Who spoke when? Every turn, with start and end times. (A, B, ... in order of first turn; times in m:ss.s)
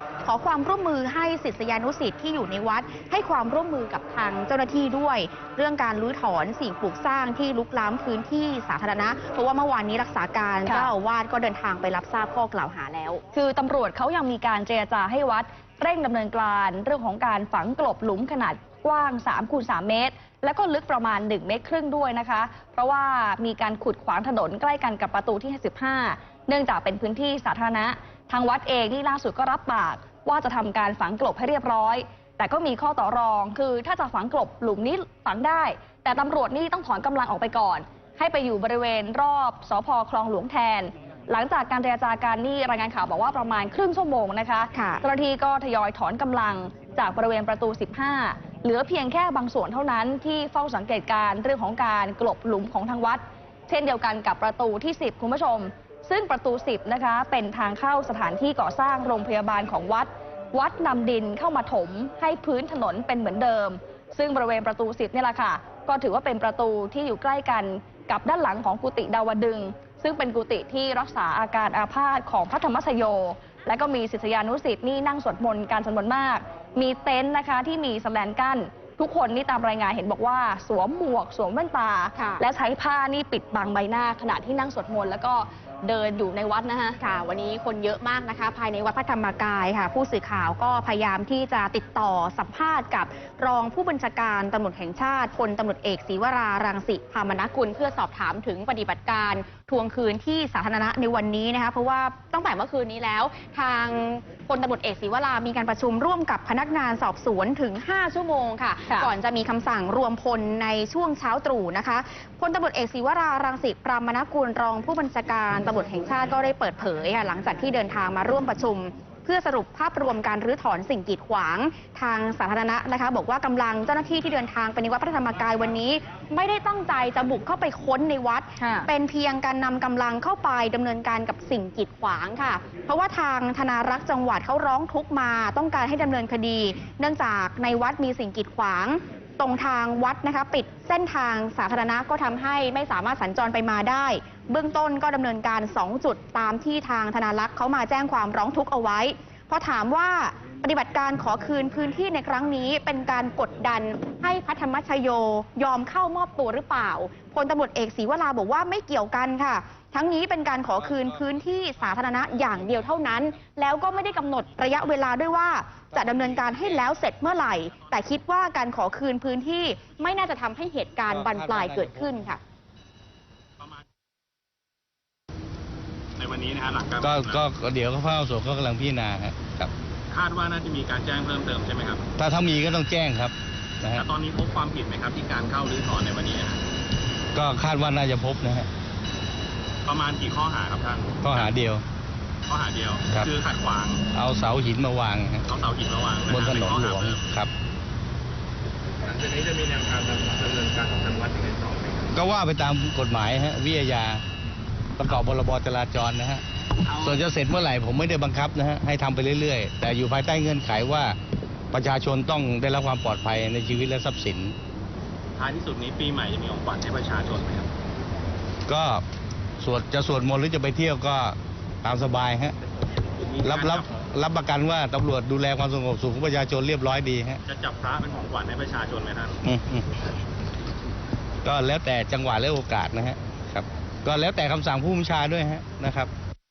0:00.2-0:13.2 A
0:10.7-0:10.9 B
0:13.3-1:27.0 B
0:44.7-0:45.0 A
1:22.2-1:22.4 A
1:27.0-2:52.4 A
2:08.6-2:08.9 B
2:44.0-2:44.4 C
2:46.4-2:46.8 C
2:47.7-2:48.0 C
2:51.1-2:52.1 D
2:56.2-2:57.5 C
2:57.0-2:59.7 D
3:00.1-3:02.1 C
3:02.2-3:04.0 D
3:04.0-3:06.6 C
3:07.3-3:08.7 D
3:09.8-3:11.5 C
3:11.2-3:11.8 D
3:12.5-3:14.0 C
3:14.1-3:15.4 D
3:15.5-3:17.3 C
3:16.3-3:17.5 D
3:19.0-3:22.1 C
3:22.1-3:24.2 D
3:25.0-3:26.4 D
3:26.9-3:31.2 D
3:31.7-3:34.6 D
3:35.4-3:37.7 C
3:38.7-3:39.0 D
3:39.6-3:42.6 D
3:43.2-3:44.0 C
3:43.4-3:47.4 D
3:47.4-3:49.4 C
3:49.4-3:49.9 D
3:51.4-3:56.1 D